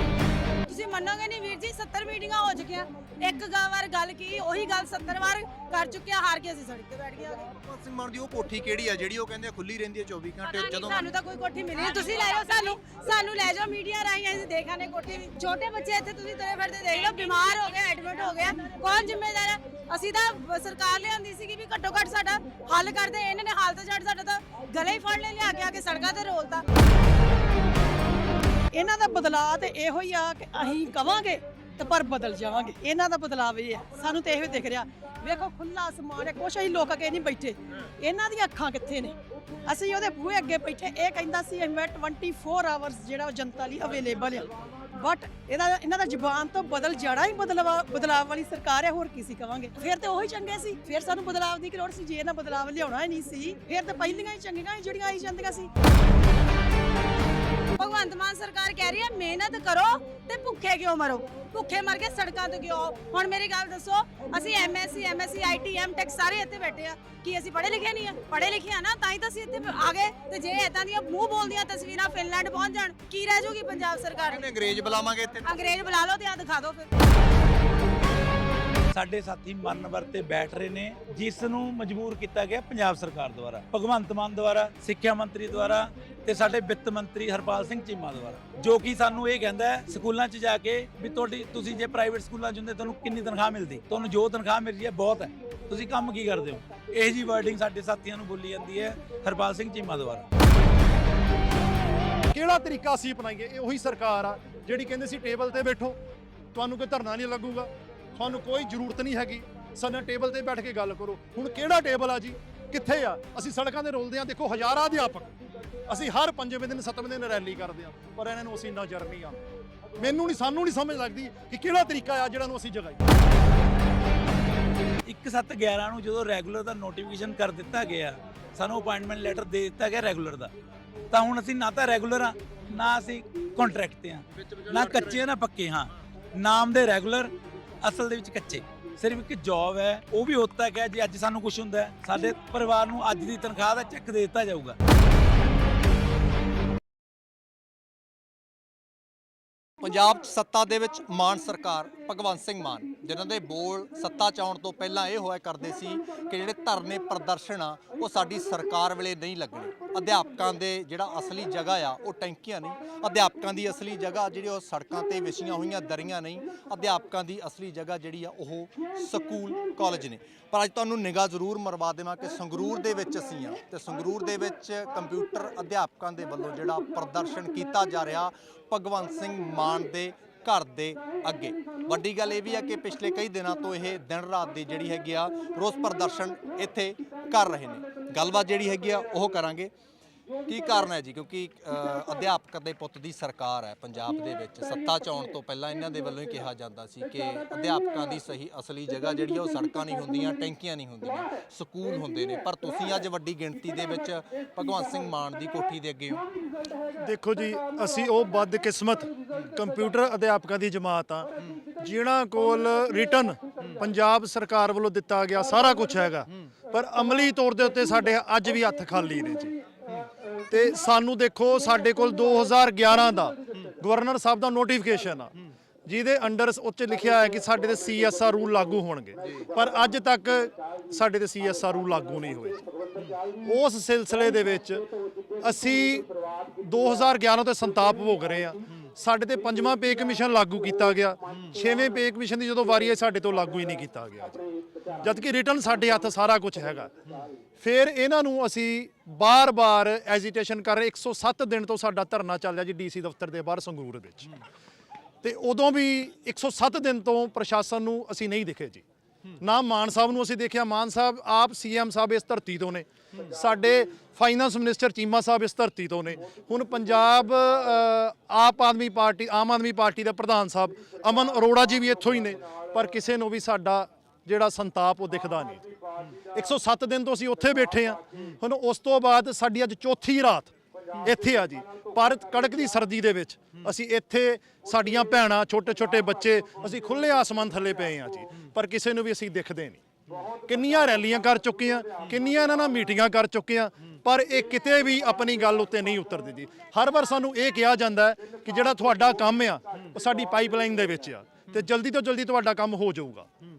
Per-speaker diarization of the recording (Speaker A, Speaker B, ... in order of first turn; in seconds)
Speaker A: 0.7-7.5, 10.4-26.6, 57.7-74.4, 75.4-77.0
Speaker B: 7.5-11.1, 74.2-75.5, 134.3-135.3, 149.8-189.7, 190.5-206.2
Speaker C: 28.7-55.7
Speaker D: 78.9-100.2, 125.1-130.5, 131.1-144.8
Speaker E: 102.3-106.0, 106.5-115.3, 115.9-119.4, 120.0-123.0, 207.0-219.6, 220.5-225.3, 225.9-232.6, 233.4-234.8, 235.4-236.1, 236.6-244.4, 245.0-246.9, 247.6-254.3, 255.2-258.8, 259.4-275.7, 276.3-280.5, 281.0-289.8, 290.4-303.3